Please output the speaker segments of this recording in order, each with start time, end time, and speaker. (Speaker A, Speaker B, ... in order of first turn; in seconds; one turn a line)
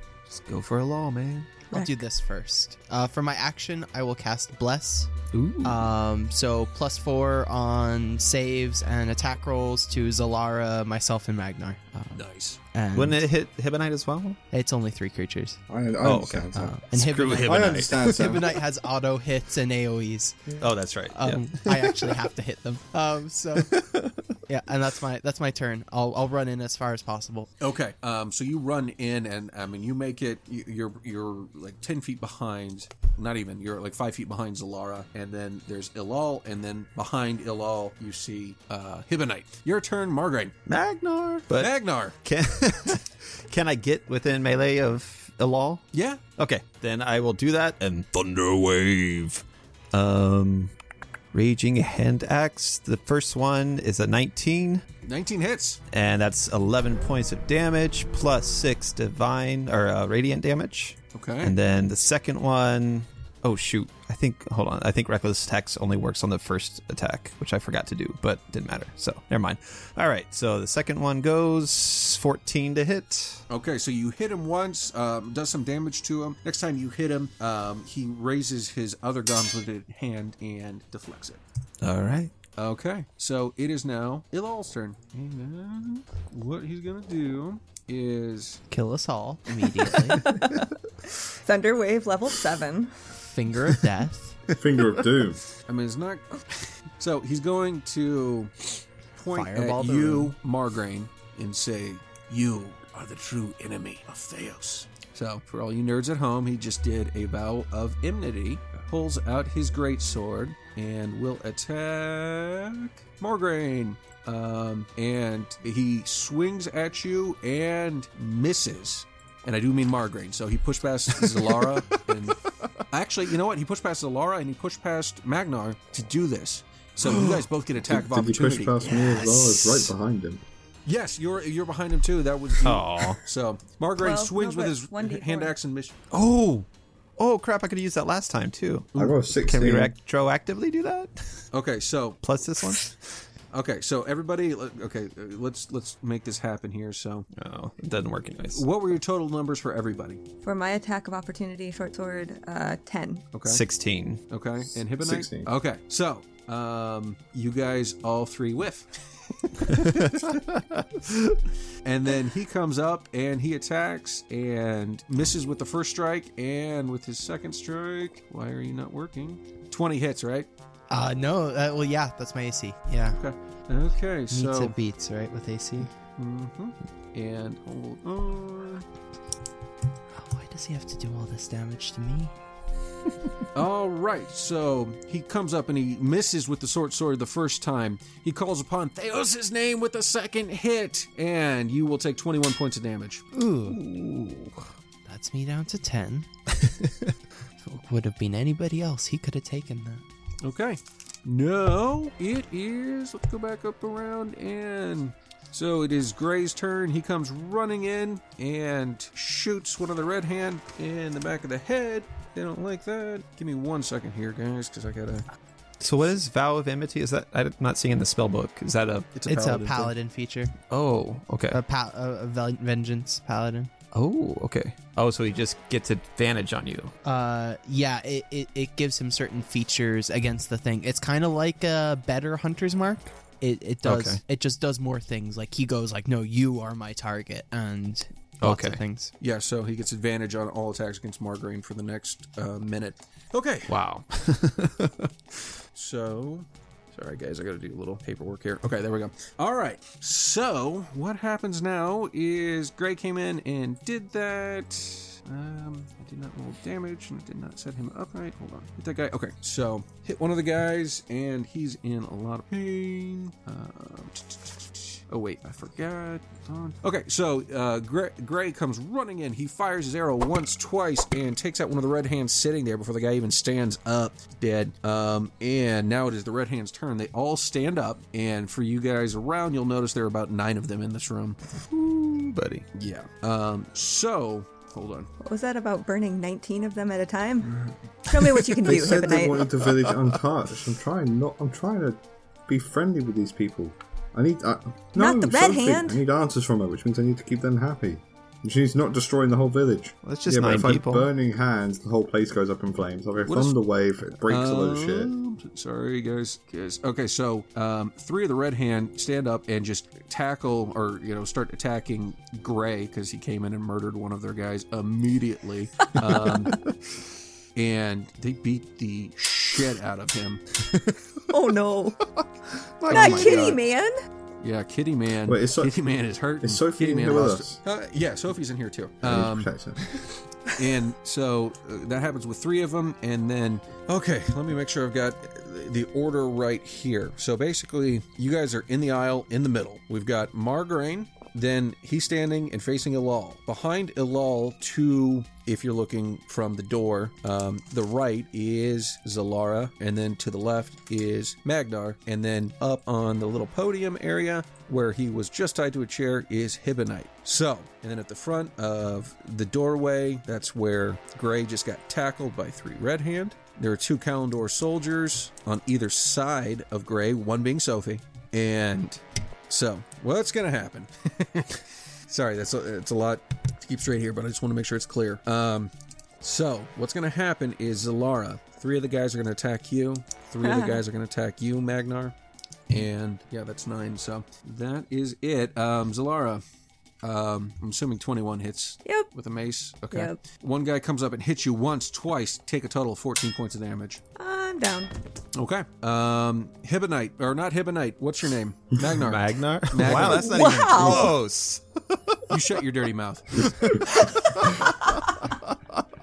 Speaker A: 0.3-1.6
Speaker B: 1.7-13.2
Speaker C: 1.7-2.0
Speaker A: 5.3-5.8
Speaker D: 12.1-12.6
Speaker A: 12.9-14.4
Speaker B: 14.5-15.6
Speaker E: 15.7-16.8
Speaker A: 16.0-18.4
Speaker B: 16.5-23.8
Speaker E: 17.4-18.5
Speaker A: 20.6-22.1
Speaker A: 23.6-24.3
Speaker B: 24.5-27.5
Speaker D: 27.6-40.5
Speaker A: 40.7-45.8
Speaker D: 41.5-42.1
Speaker D: 45.9-46.2
Speaker A: 46.4-50.7
Speaker A: 51.3-54.8
Speaker D: 55.0-55.8
Speaker A: 55.9-73.4
Speaker D: 61.1-61.5
Speaker D: 73.5-81.4
Speaker A: 81.8-82.3
Speaker D: 82.6-88.6
Speaker B: 88.7-90.3
Speaker A: 90.2-90.5
Speaker C: 90.3-90.6
Speaker C: 91.2-93.0
Speaker B: 93.3-94.4
Speaker E: 94.5-95.4
Speaker D: 95.7-96.5
Speaker D: 97.0-122.4
Speaker B: 99.3-100.3
Speaker D: 122.9-128.8
Speaker E: 127.8-130.4
Speaker B: 129.2-129.6
Speaker D: 130.8-136.0
Speaker A: 132.6-133.2
Speaker C: 134.0-135.5
Speaker A: 136.1-136.7
Speaker A: 137.2-141.4
Speaker E: 138.9-139.9
Speaker D: 141.5-142.2
Speaker A: 142.2-143.0
Speaker D: 143.5-147.3
Speaker A: 147.3-148.6
Speaker D: 148.5-150.2
Speaker C: 150.4-153.3
Speaker D: 153.3-153.6
Speaker A: 153.4-154.2
Speaker D: 154.3-159.0
Speaker E: 154.9-155.5
Speaker A: 159.7-161.4
Speaker D: 159.8-160.1
Speaker D: 161.8-170.5
Speaker B: 170.9-173.2
Speaker D: 173.2-174.8
Speaker B: 174.3-175.9
Speaker D: 176.2-178.8
Speaker B: 180.1-182.3
Speaker D: 183.5-193.2
Speaker B: 193.3-193.8
Speaker A: 193.8-194.5
Speaker B: 195.1-196.3
Speaker A: 196.6-197.1
Speaker B: 197.6-200.0
Speaker D: 200.4-215.2
Speaker A: 215.8-219.1
Speaker D: 219.1-219.9
Speaker B: 219.3-220.5
Speaker A: 220.7-221.6
Speaker B: 221.5-223.7
Speaker A: 223.9-226.9
Speaker B: 227.0-239.1
Speaker A: 233.8-234.2
Speaker A: 238.4-238.8
Speaker D: 239.2-243.7
Speaker A: 243.7-245.1
Speaker D: 245.7-281.4
Speaker A: 281.6-282.6
Speaker D: 282.7-285.1
Speaker C: 285.2-289.5
Speaker A: 288.5-288.9
Speaker E: 288.6-305.1
Speaker C: 294.9-296.0
Speaker A: 300.0-301.1
Speaker D: 303.2-303.6
Speaker D: 304.1-316.6
Speaker A: 316.0-316.7
Speaker D: 317.6-320.4
Speaker A: 320.7-321.2
Speaker C: 321.3-322.0
Speaker A: 322.1-323.6
Speaker D: 322.9-323.6
Speaker C: 322.9-324.0
Speaker D: 324.4-329.5
Speaker E: 325.2-325.7
Speaker E: 326.4-327.6
Speaker E: 329.0-330.0
Speaker D: 330.5-382.1
Speaker C: 380.4-380.8
Speaker D: 382.7-386.4
Speaker D: 387.0-394.0
Speaker C: 389.9-390.2
Speaker C: 394.2-394.9
Speaker D: 395.3-401.1
Speaker A: 399.0-402.4
Speaker C: 399.8-401.2
Speaker D: 402.3-403.8
Speaker A: 403.4-405.2